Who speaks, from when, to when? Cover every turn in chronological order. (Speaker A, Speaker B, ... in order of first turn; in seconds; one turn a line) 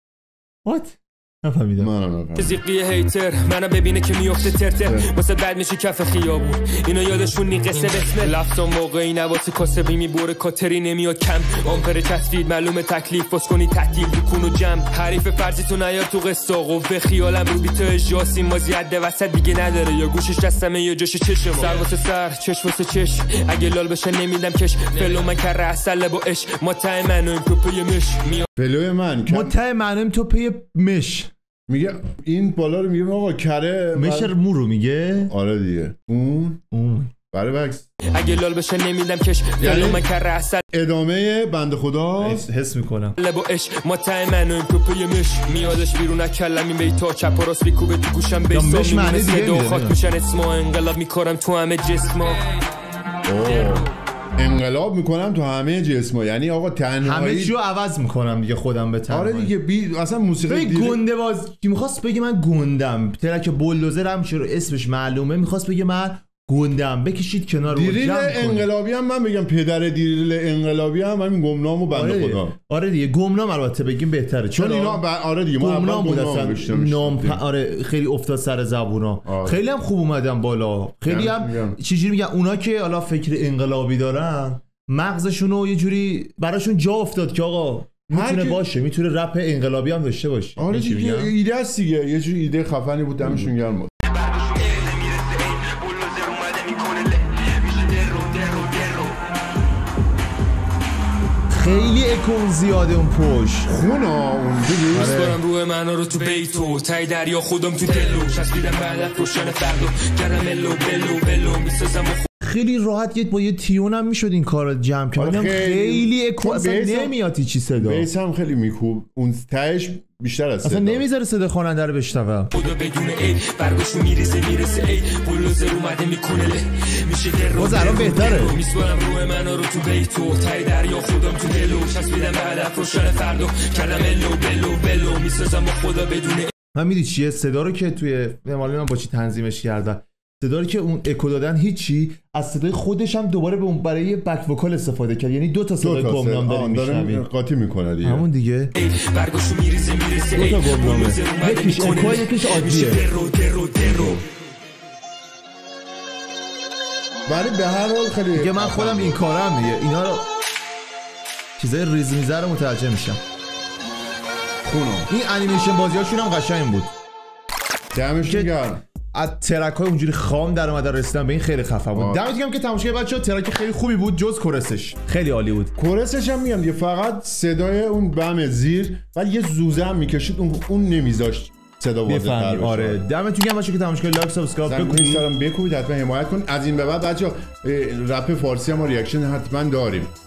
Speaker A: 0.6-1.9
Speaker B: 1.8-2.6
Speaker C: 2.4-28.5
Speaker B: 4.8-5.1
Speaker B: 28.6-29.5
Speaker A: 29.3-31.3
Speaker B: 31.7-34.3
Speaker A: 33.9-35.3
Speaker B: 35.3-36.6
Speaker A: 36.7-37.1
Speaker B: 37.3-37.9
Speaker C: 38.1-40.6
Speaker B: 39.6-40.0
Speaker B: 40.7-42.5
Speaker A: 42.2-43.2
Speaker C: 43.2-52.5
Speaker A: 48.5-50.0
Speaker B: 53.3-53.9
Speaker B: 54.4-57.5
Speaker A: 57.0-59.5
Speaker B: 59.1-61.0
Speaker A: 60.5-68.7
Speaker B: 67.7-72.5
Speaker A: 71.9-91.3
Speaker B: 74.5-77.4
Speaker B: 79.2-79.6
Speaker B: 81.0-81.8
Speaker B: 88.1-88.6
Speaker B: 90.6-93.9
Speaker A: 93.2-93.5
Speaker C: 94.0-99.2
Speaker A: 101.5-103.7
Speaker B: 103.7-105.3
Speaker C: 104.8-112.3
Speaker A: 104.9-105.4
Speaker A: 112.4-118.1
Speaker B: 115.1-117.2
Speaker B: 117.8-121.0
Speaker A: 120.6-122.5
Speaker C: 122.5-136.5
Speaker A: 127.5-128.6
Speaker A: 136.7-147.2
Speaker B: 145.8-148.2
Speaker A: 148.0-148.7
Speaker C: 148.7-154.2
Speaker A: 150.3-153.0
Speaker B: 157.3-159.2
Speaker A: 158.3-160.2
Speaker A: 161.6-163.2
Speaker B: 164.6-165.1
Speaker A: 165.1-166.9
Speaker B: 167.9-168.8
Speaker A: 168.2-168.5
Speaker A: 169.1-175.7
Speaker B: 171.9-172.3
Speaker B: 175.8-183.0
Speaker A: 182.0-185.2
Speaker B: 184.6-190.1